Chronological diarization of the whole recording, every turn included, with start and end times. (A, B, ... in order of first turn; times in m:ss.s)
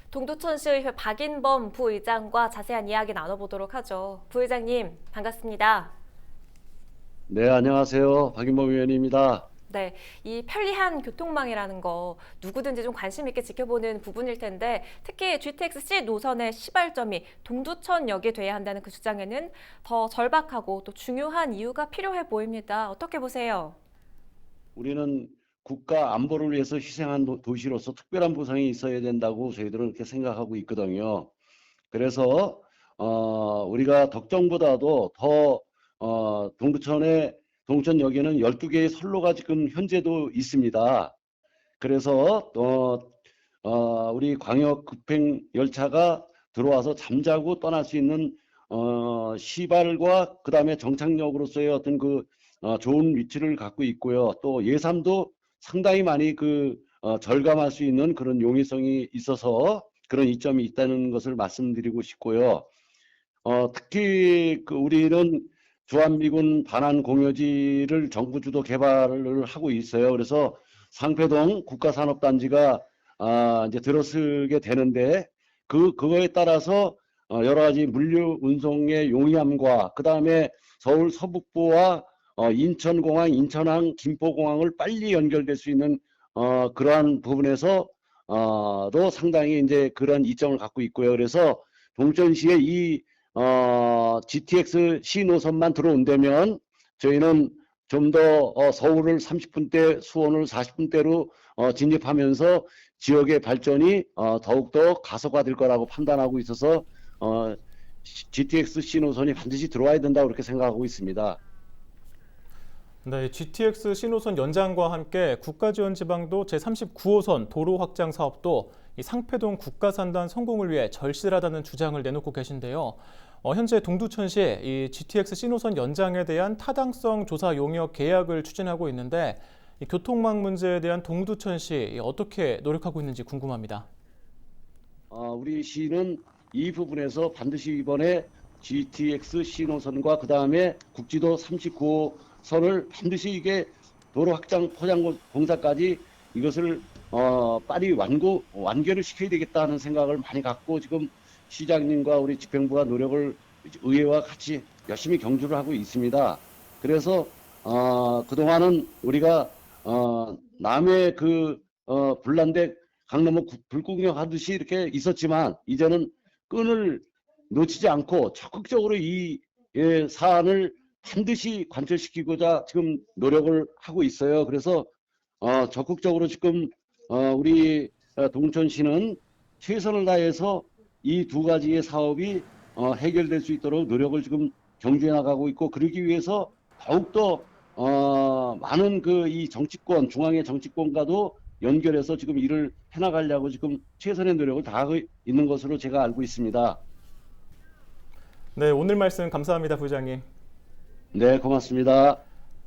0:00.1-0:05.9 A
0:07.3-0:09.5 B
0:09.7-0:23.8 A
0:24.8-0:31.3 B
0:31.9-0:41.1 B
0:41.8-0:43.1 B
0:43.6-1:02.7 B
1:03.4-1:51.4 B
1:53.0-2:13.8 C
2:15.1-2:54.9 B
2:55.4-3:16.8 B
3:18.6-3:20.2 C
3:21.1-3:22.2 B